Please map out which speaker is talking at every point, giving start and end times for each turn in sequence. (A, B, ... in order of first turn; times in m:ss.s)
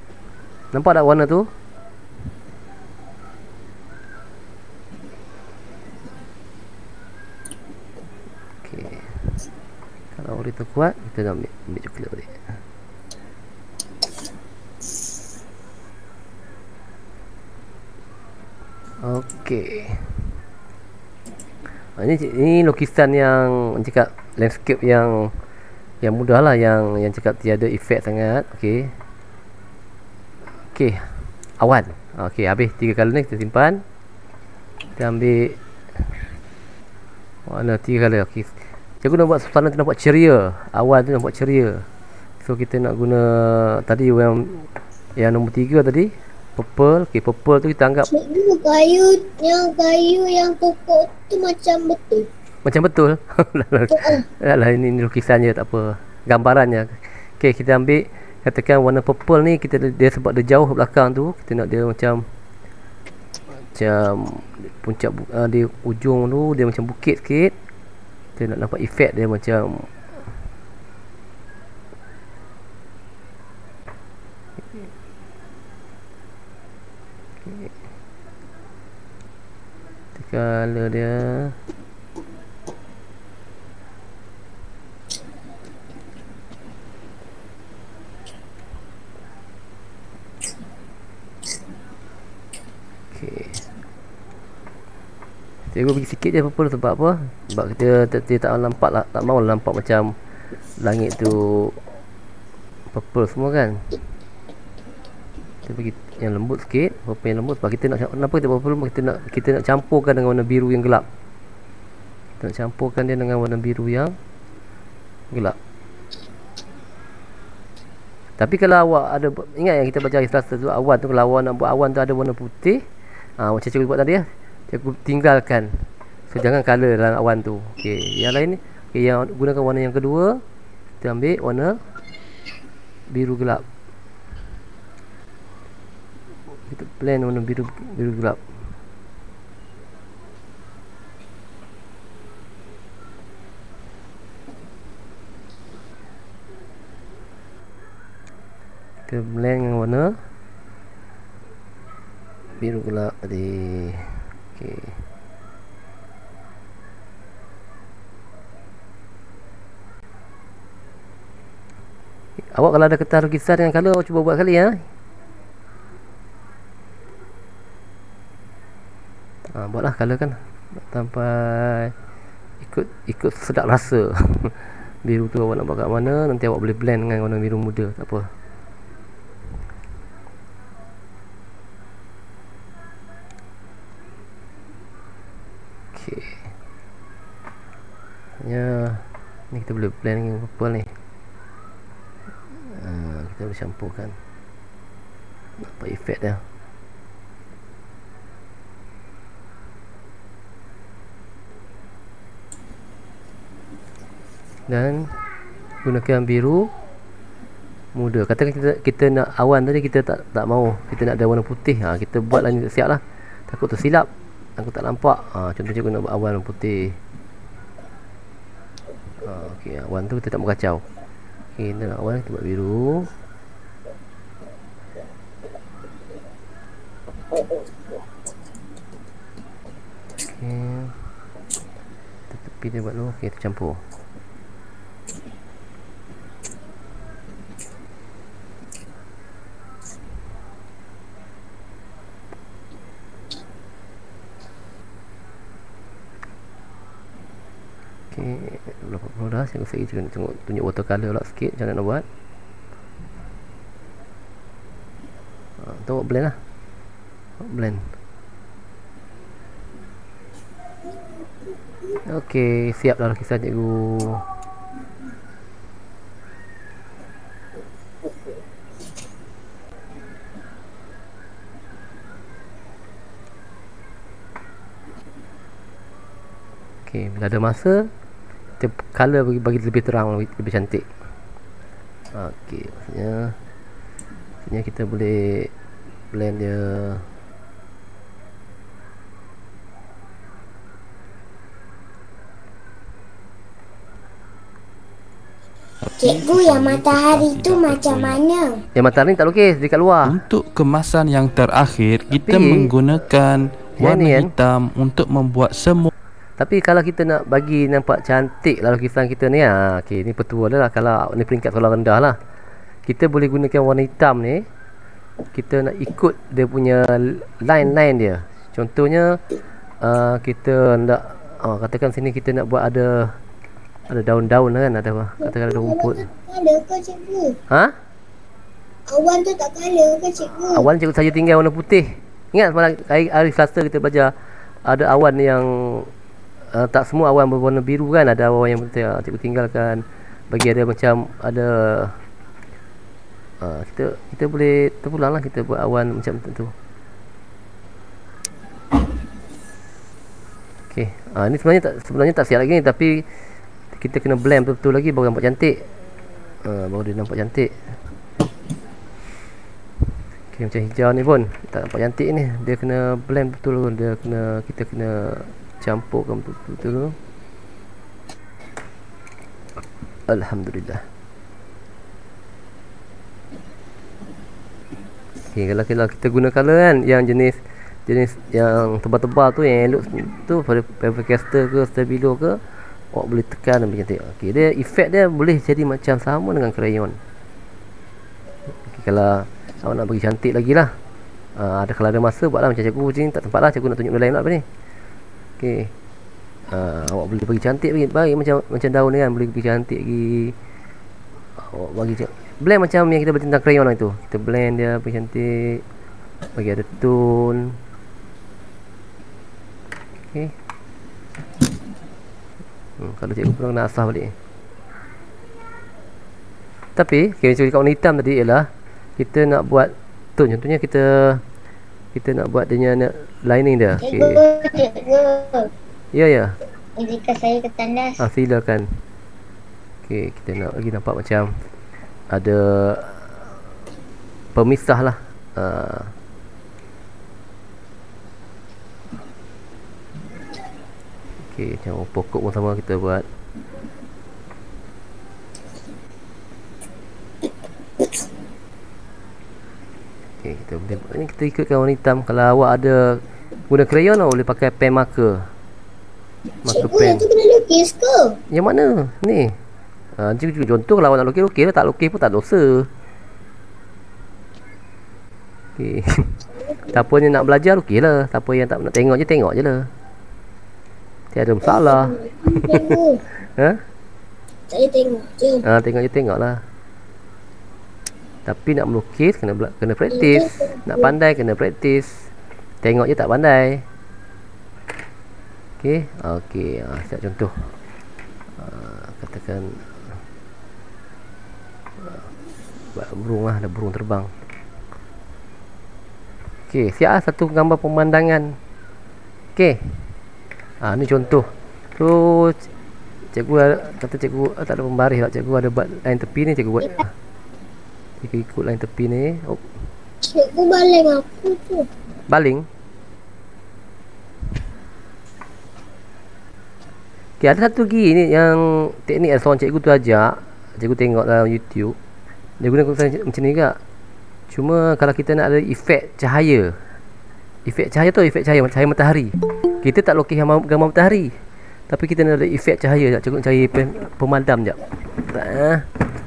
0:00.7-0:01.5 A
0:08.6-0:09.2 A
0:10.2-0:12.4 A
0:19.0-0:20.2 A
0:22.0-0:25.3 A
0:26.0-0:28.9 A
0:30.7-0:31.1 A
0:31.6-0:33.8 A
0:35.0-0:35.6 A
0:37.5-0:38.5 A
0:39.0-0:41.8 A
0:42.4-0:44.6 A
0:45.2-0:48.1 A
0:48.1-0:52.3 B
0:52.6-1:02.2 A
0:53.9-0:54.2 B
1:03.7-1:07.5 A
1:08.4-1:09.9 A
1:17.4-1:17.7 A
1:20.2-1:21.6 A
1:33.1-1:33.6 A
1:35.7-1:40.1 A
1:40.8-1:41.8 A
1:42.9-1:43.8 A
1:45.7-1:51.1 A
1:52.4-1:54.1 A
1:58.4-2:02.8 A
2:03.4-2:05.7 A
2:06.3-2:10.4 A
2:11.0-2:11.8 A
2:13.1-2:13.6 A
2:16.7-2:18.4 A
2:29.1-2:30.1 A
2:32.6-2:35.0 A
2:42.5-2:44.8 A
2:49.5-2:51.9 A
2:52.6-2:58.2 A
3:05.9-3:06.5 A
3:08.4-3:10.9 A
3:12.7-3:14.2 A
3:15.6-3:16.4 A
3:24.7-3:25.1 A
3:25.8-3:26.7 A
3:28.0-3:37.0 A
3:39.2-3:40.8 A
3:41.6-3:43.1 A
3:50.2-3:51.0 A
3:52.3-3:53.8 A
4:08.1-4:12.0 A
4:15.6-4:16.4 A
4:17.4-4:17.9 A
4:22.1-4:24.2 A
4:36.9-4:37.9 A
4:38.6-4:40.9 A
4:42.1-4:43.4 A
4:44.4-4:45.5 A
4:46.1-4:47.0 A
4:55.8-4:58.2 C
4:56.0-4:58.6 B
4:58.8-5:00.2 A
5:00.0-5:05.9 C
5:02.1-5:02.8 A
5:03.8-5:04.3 A
5:06.4-5:12.2 A
5:12.9-5:14.4 A
5:15.3-5:19.2 A
5:19.8-5:23.1 A
5:23.9-5:26.1 A
5:25.2-5:27.4 B
5:28.9-5:30.7 B
5:30.5-5:34.1 A
5:34.7-5:35.9 A
5:36.5-5:42.0 A
5:43.4-5:46.5 A
5:50.7-5:53.0 A
5:53.8-5:55.6 A
5:56.4-5:57.5 A
6:00.3-6:07.0 A
6:10.1-6:10.8 A
6:15.3-6:22.4 A
6:22.9-6:27.0 A
6:28.6-6:30.7 A
6:31.4-6:34.4 A
6:35.4-6:35.7 A
6:36.5-6:40.4 A
6:41.4-6:45.6 A
6:46.4-6:47.5 A
6:52.8-6:54.1 A
6:56.8-6:58.5 A
6:59.0-7:01.2 A
7:01.9-7:04.2 A
7:03.8-7:05.5 B
7:05.9-7:06.3 A
7:06.8-7:08.0 B
7:08.0-7:08.7 A
7:09.9-7:11.3 A
7:12.1-7:13.2 A
7:14.4-7:15.9 A
7:21.2-7:23.0 A
7:30.2-7:35.3 A
7:36.4-7:37.1 A
7:36.5-7:38.2 B
7:38.3-7:39.4 A
7:40.0-7:42.7 A
7:45.6-7:46.1 A
7:46.7-7:49.7 A
7:51.1-7:52.8 A
7:51.4-7:53.0 B
7:54.5-7:55.4 B
7:55.4-7:56.4 A
7:58.3-8:02.1 A
7:59.9-8:00.9 B
8:02.6-8:03.6 A
8:05.6-8:07.4 A
8:08.4-8:09.6 A
8:12.7-8:14.1 A
8:16.5-8:18.3 A
8:20.6-8:21.3 A
8:21.8-8:22.4 A
8:23.1-8:26.9 A
8:28.0-8:29.4 A
8:30.0-8:31.7 B
8:32.1-8:32.4 A
8:37.2-8:41.8 A
8:42.4-8:43.6 A
8:44.3-8:46.5 A
8:47.5-8:51.1 A
8:51.7-8:55.6 A